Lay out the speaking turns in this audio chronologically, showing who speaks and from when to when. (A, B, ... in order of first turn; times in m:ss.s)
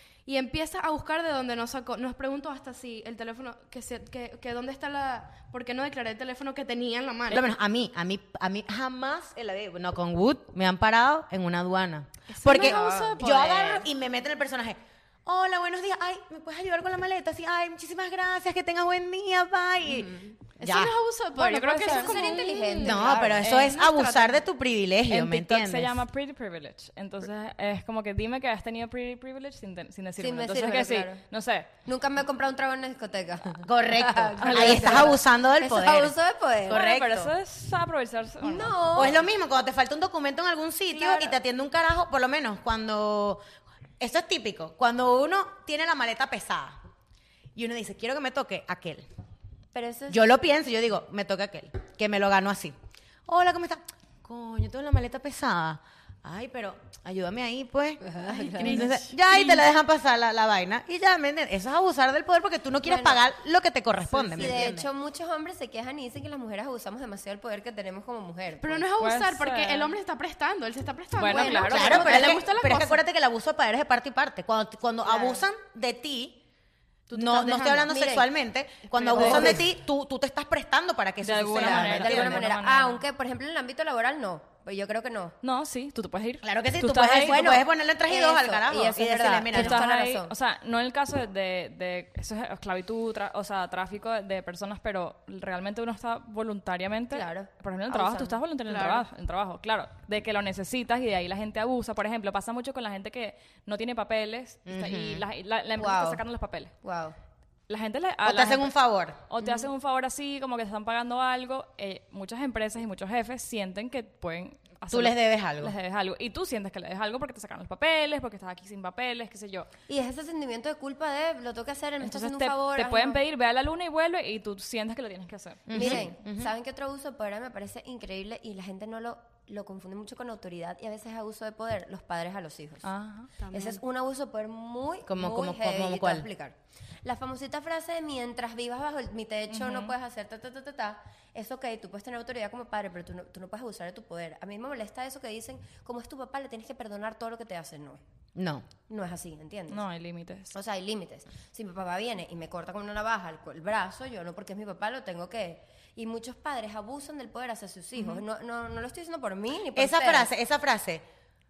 0:00.2-0:07.4 A
0:07.3-0:20.9 B
0:12.3-0:13.9 A
0:12.4-0:13.2 C
0:20.0-0:20.3 C
0:20.6-0:24.4 A
0:21.3-0:22.4 D
0:21.8-0:23.4 C
0:22.8-0:26.0 B
0:23.4-0:23.7 D
0:25.1-0:31.7 D
0:30.2-0:31.2 C
0:31.8-0:36.8 C
0:33.6-0:36.1 B
0:34.4-0:35.1 D
0:36.7-0:37.3 B
0:36.7-0:38.8 D
0:38.4-0:39.2 C
0:38.9-0:43.4 B
0:40.9-0:41.3 C
0:44.0-0:46.8 B
0:47.5-0:49.0 B
0:49.7-0:50.2 C
0:50.1-0:52.7 B
0:53.2-1:04.8 B
0:58.0-0:58.8 C
0:58.6-0:59.6 A
1:02.8-1:03.2 C
1:04.1-1:04.6 A
1:04.3-1:08.9 C
1:08.6-1:13.0 A
1:09.0-1:09.9 D
1:11.2-1:12.3 D
1:11.3-1:11.9 C
1:11.7-1:16.4 B
1:15.0-1:15.4 C
1:17.1-1:17.9 A
1:17.1-1:22.4 B
1:17.8-1:18.3 C
1:18.9-1:19.6 A
1:19.1-1:19.6 C
1:21.2-1:23.0 D
1:21.6-1:25.3 C
1:25.4-1:27.5 D
1:26.4-1:29.8 B
1:27.2-1:30.3 C
1:29.5-1:46.7 D
1:37.1-1:38.4 C
1:38.7-1:39.0 A
1:44.7-1:45.2 B
1:45.8-1:46.2 C
1:46.8-1:47.2 C
1:47.7-1:48.7 D
1:48.2-1:49.2 B
1:49.3-1:59.7 D
1:49.4-1:49.6 C
1:54.9-1:55.7 B
1:59.9-2:03.2 C
2:02.0-2:06.0 D
2:05.7-2:06.5 B
2:05.7-2:12.9 C
2:12.8-2:13.3 D
2:13.4-2:13.8 A
2:13.5-2:28.0 C
2:15.1-2:16.3 B
2:19.5-2:19.9 D
2:28.3-2:28.7 B
2:28.9-2:29.8 C
2:29.7-2:30.6 D
2:30.5-2:40.3 C
2:39.7-2:41.0 B